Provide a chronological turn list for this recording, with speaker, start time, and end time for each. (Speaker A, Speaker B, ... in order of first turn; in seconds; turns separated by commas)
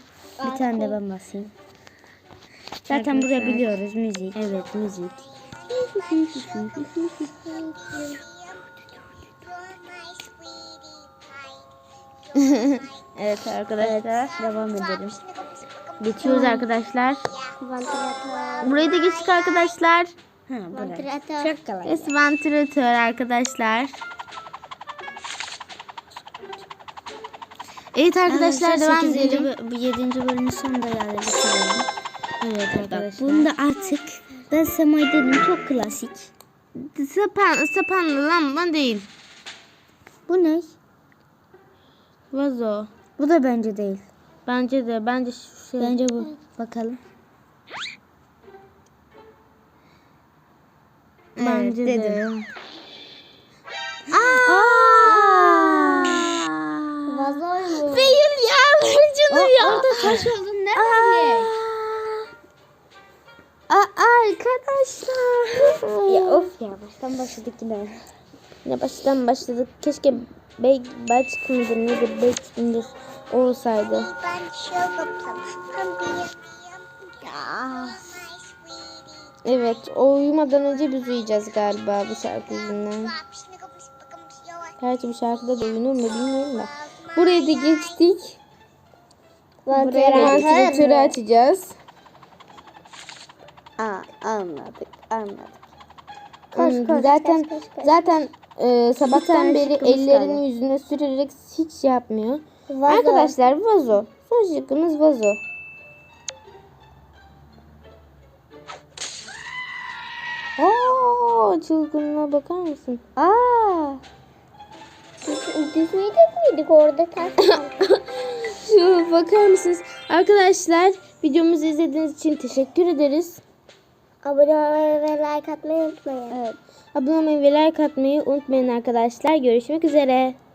Speaker A: 0.4-1.0, Speaker B: 0.4-1.5, Speaker B: 2.9-4.4, Speaker C: 2.9-3.7, Speaker C: 4.3-5.3, Speaker B: 5.7-6.9, Speaker C: 6.0-6.6, Speaker A: 7.2-8.2, Speaker A: 9.6-10.4, Speaker C: 12.3-14.3, Speaker B: 13.8-15.2, Speaker C: 16.0-17.3, Speaker B: 16.2-16.6, Speaker A: 17.5-19.1, Speaker C: 18.6-20.1, Speaker B: 20.5-22.1, Speaker A: 20.7-21.5, Speaker C: 21.9-24.0, Speaker C: 27.9-29.5, Speaker B: 28.3-31.9, Speaker C: 32.4-33.5, Speaker B: 32.7-36.3, Speaker C: 36.8-39.1, Speaker B: 40.3-40.8, Speaker C: 42.3-42.9, Speaker B: 43.1-44.1, Speaker C: 44.5-46.0, Speaker B: 45.8-47.0, Speaker C: 51.4-52.5, Speaker B: 51.4-52.2, Speaker C: 54.1-62.3, Speaker B: 54.1-56.2, Speaker A: 57.1-58.2, Speaker B: 59.3-61.5, Speaker C: 63.7-66.5, Speaker B: 66.0-68.0, Speaker C: 68.6-74.3, Speaker A: 74.4-76.5, Speaker B: 77.2-78.2, Speaker C: 79.4-83.2, Speaker C: 84.8-88.4, Speaker A: 89.7-91.1, Speaker C: 89.7-91.8, Speaker B: 90.1-90.7, Speaker B: 93.8-95.6, Speaker C: 96.5-105.4, Speaker B: 96.6-96.9, Speaker A: 96.6-98.2, Speaker B: 99.1-100.4, Speaker A: 102.7-103.4, Speaker C: 110.6-113.0, Speaker B: 113.2-114.0, Speaker A: 115.2-117.8, Speaker C: 117.4-123.4, Speaker A: 124.2-126.4, Speaker B: 126.3-126.6, Speaker C: 126.9-130.4